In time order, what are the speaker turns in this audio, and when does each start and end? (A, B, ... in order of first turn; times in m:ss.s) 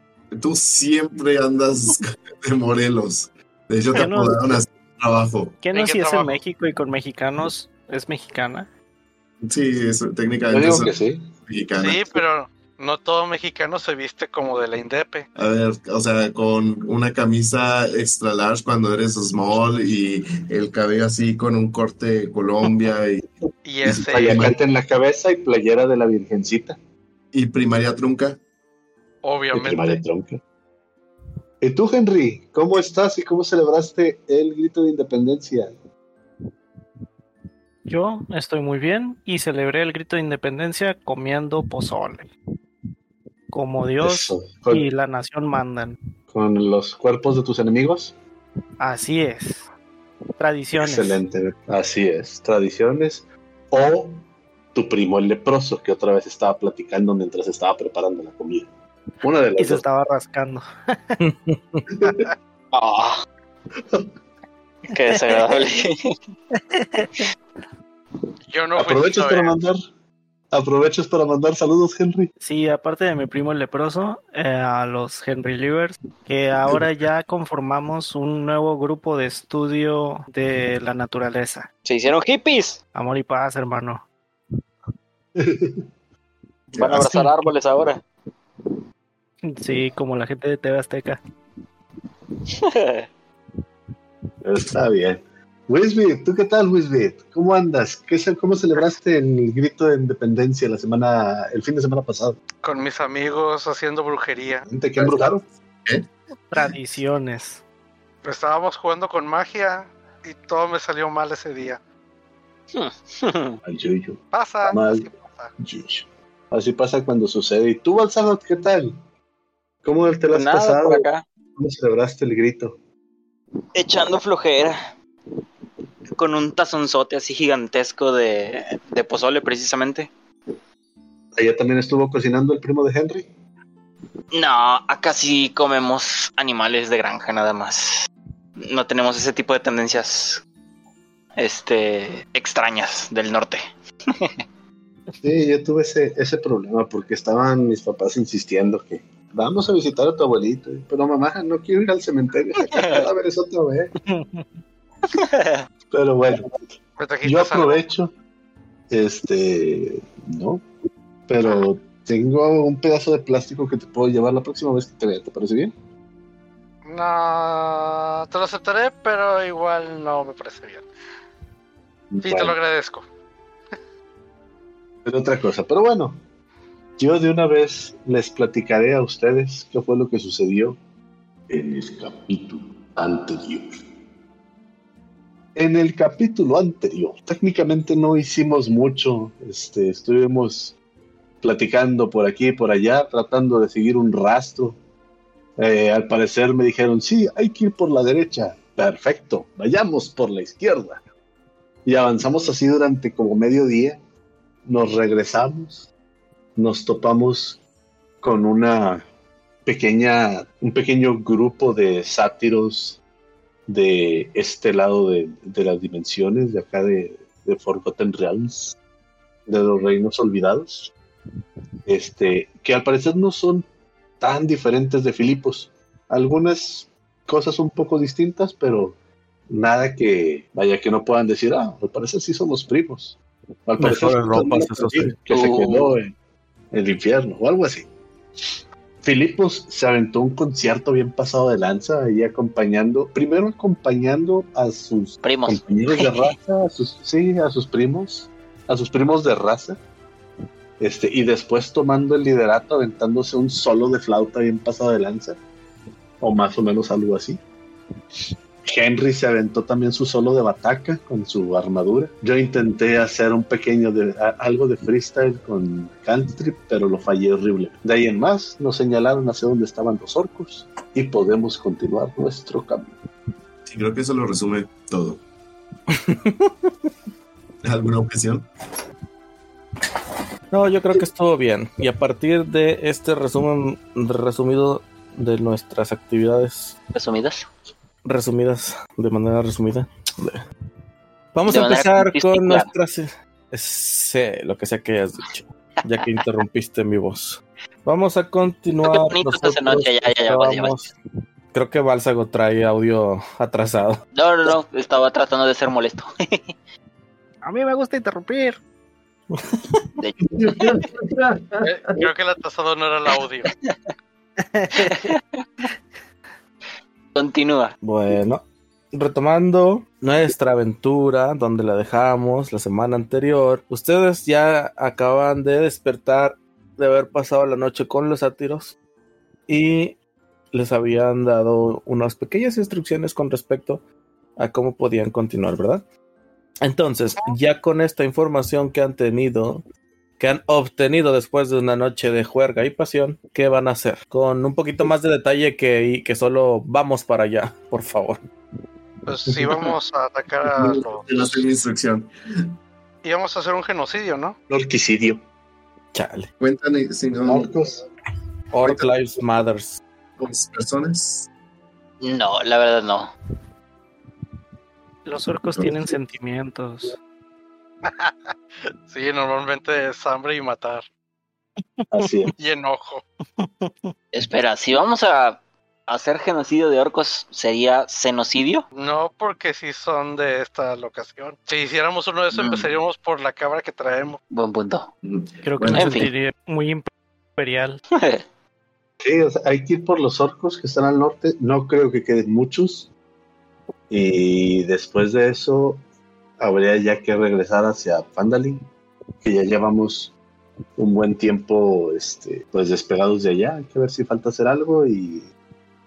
0:00.3-0:05.6 A
0:03.9-0:04.6 B
0:05.6-0:08.7 B
0:05.7-0:06.4 C
0:09.4-0:10.9 A
0:10.5-0:11.2 D
0:11.5-0:12.1 A
0:11.8-0:15.3 C
0:15.4-0:23.3 A
0:23.6-0:24.6 C
0:23.8-0:26.8 D
0:23.9-0:24.6 A
0:27.3-0:28.4 A
0:29.2-0:30.0 C
0:29.5-0:30.4 D
0:31.6-0:35.7 D
0:37.9-0:42.3 B
0:43.5-0:46.0 B
0:44.0-0:44.8 D
0:46.3-0:48.1 D
0:48.8-0:49.7 B
0:50.4-0:51.2 B
0:50.7-0:54.2 D
0:54.7-0:58.7 D
0:59.2-0:59.8 D
0:59.6-1:01.2 B
1:01.2-1:01.8 E
1:01.9-1:02.3 D
1:02.7-1:03.2 F
1:04.9-1:06.0 F
1:05.1-1:05.5 B
1:06.5-1:07.1 B
1:08.5-1:09.6 C
1:08.8-1:09.8 D
1:10.5-1:12.3 D
1:12.4-1:21.7 B
1:21.8-1:22.8 F
1:22.9-1:24.0 B
1:25.4-1:25.8 D
1:26.7-1:27.0 A
1:26.8-1:28.0 F
1:26.9-1:27.3 D
1:29.4-1:31.2 B
1:32.5-1:33.1 F
1:34.4-1:42.4 D
1:42.6-1:44.6 C
1:44.6-1:45.4 D
1:45.0-1:45.3 A
1:46.5-1:47.6 B
1:48.2-1:51.8 C
1:52.7-1:53.6 F
1:53.6-1:55.0 D
1:54.3-1:55.5 C
1:55.6-1:58.9 D
1:59.8-2:01.0 D
2:00.3-2:01.2 F
2:01.6-2:02.8 D
2:03.7-2:04.8 F
2:06.2-2:10.1 F
2:11.4-2:13.3 D
2:14.3-2:18.0 F
2:18.6-2:20.4 F
2:21.4-2:23.6 F
2:25.2-2:33.9 D
2:32.7-2:33.0 F
2:34.1-2:34.4 B
2:35.1-2:35.6 F
2:35.9-2:36.5 D
2:37.0-2:37.8 C
2:37.2-2:38.1 D
2:38.9-2:40.6 D
2:41.3-2:45.7 D
2:46.8-2:50.8 C
2:52.1-2:52.6 D
2:52.2-2:53.0 C
2:55.0-2:56.2 D
2:57.0-3:00.8 D
3:01.5-3:03.8 D
3:05.6-3:10.7 D
3:11.4-3:14.8 D
3:15.6-3:21.0 D
3:21.8-3:24.0 D
3:24.6-3:25.9 D
3:26.6-3:27.6 D
3:28.2-3:29.0 D
3:29.6-3:33.0 D
3:33.7-3:38.8 D
3:39.5-3:40.9 D
3:41.8-3:43.6 D
3:44.2-3:49.0 D
3:49.5-3:56.1 D
3:53.8-3:55.1 E
3:55.3-3:56.0 F
3:56.7-3:57.9 D
3:59.0-4:09.8 D
4:05.2-4:06.3 F
4:10.8-4:15.4 D
4:16.2-4:17.4 D
4:18.2-4:32.9 D
4:33.6-4:35.2 A
4:35.9-4:36.7 E
4:37.6-4:38.5 A
4:40.5-4:46.8 E
4:46.9-4:47.5 F
4:48.0-4:50.4 E
4:51.3-5:00.9 E
4:51.5-4:52.7 F
4:58.8-5:00.7 F
5:01.5-5:04.0 E
5:04.1-5:06.5 F
5:07.4-5:08.6 B
5:09.3-5:09.8 E
5:10.3-5:12.1 A
5:11.6-5:13.5 C
5:13.4-5:13.7 F
5:14.4-5:15.1 B
5:14.7-5:15.4 F
5:17.1-5:17.7 F
5:17.8-5:28.8 E
5:29.5-5:30.0 E
5:30.5-5:33.8 E
5:34.4-5:35.8 E
5:36.6-5:39.6 E
5:40.2-5:48.2 E
5:49.0-5:51.4 C
5:50.5-5:52.1 A
5:53.0-5:54.4 C
5:54.5-5:55.2 D
5:55.9-5:56.3 E
5:56.4-5:57.5 A
5:57.2-5:57.8 D
5:58.5-5:59.8 E
5:58.6-5:58.9 A
6:00.2-6:01.3 A
6:02.0-6:03.1 F
6:05.0-6:07.0 B
6:05.6-6:05.9 A
6:07.8-6:08.3 C
6:08.8-6:10.8 C
6:11.8-6:12.1 B
6:11.9-6:12.3 D
6:12.4-6:13.0 C
6:13.4-6:13.9 B
6:14.1-6:18.6 F
6:18.7-6:24.2 C
6:22.3-6:22.7 F
6:24.3-6:24.9 F
6:25.0-6:26.0 A
6:25.4-6:27.8 B
6:25.7-6:26.1 F
6:27.9-6:28.2 F
6:29.0-6:32.9 D
6:33.9-6:35.8 D
6:36.4-6:38.6 D
6:39.2-6:40.1 D
6:40.8-6:45.3 D